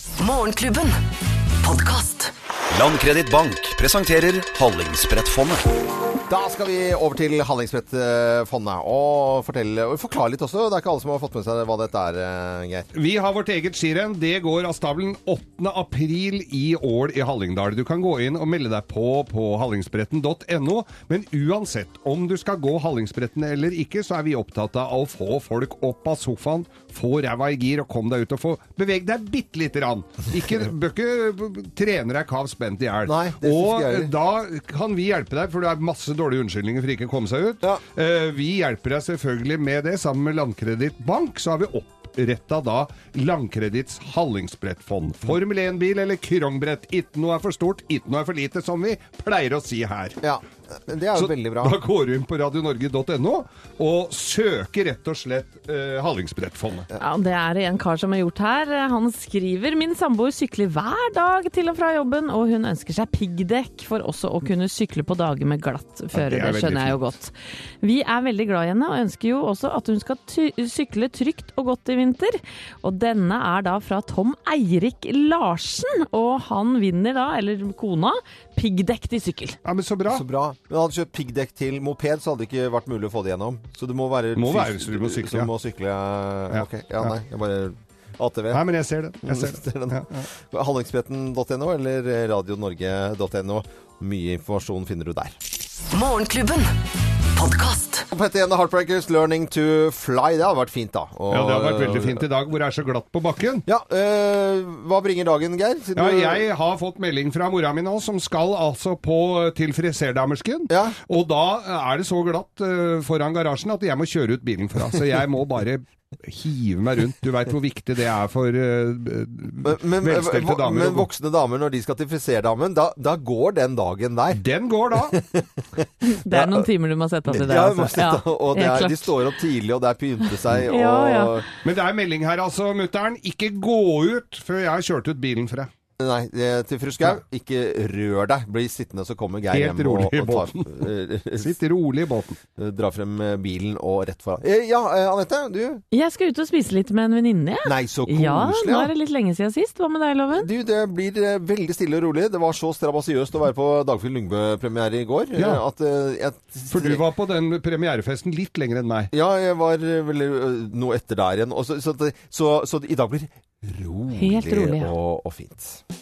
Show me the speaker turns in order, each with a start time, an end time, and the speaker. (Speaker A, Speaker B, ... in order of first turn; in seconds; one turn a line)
Speaker A: 0.2-1.0
Speaker A: 1.6-2.3
Speaker B: 2.7-5.6
Speaker C: 6.3-12.9
Speaker D: 12.9-50.2
Speaker C: 33.0-34.1
Speaker C: 50.2-51.8
Speaker D: 51.1-56.9
Speaker E: 57.0-79.6
Speaker D: 66.1-67.0
Speaker D: 79.6-80.2
Speaker C: 80.1-88.6
Speaker D: 84.3-85.5
Speaker D: 86.5-87.1
Speaker D: 88.5-90.3
Speaker C: 89.2-95.4
Speaker A: 95.9-96.7
Speaker A: 97.3-98.1
Speaker C: 98.1-102.2
Speaker D: 101.3-103.6
Speaker C: 103.7-106.5
Speaker D: 105.9-121.1
Speaker C: 110.7-111.0
Speaker C: 119.6-124.4
Speaker D: 124.3-125.1
Speaker C: 124.9-126.7
Speaker E: 126.0-129.1
Speaker C: 127.3-131.5
Speaker E: 130.6-131.4
Speaker D: 131.6-135.7
Speaker C: 136.0-141.6
Speaker D: 139.5-140.9
Speaker D: 141.4-142.4
Speaker C: 142.6-145.8
Speaker E: 145.9-150.5
Speaker C: 147.6-148.9
Speaker C: 150.3-157.0
Speaker D: 155.4-155.6
Speaker D: 156.7-159.1
Speaker C: 159.1-165.8
Speaker E: 164.1-164.9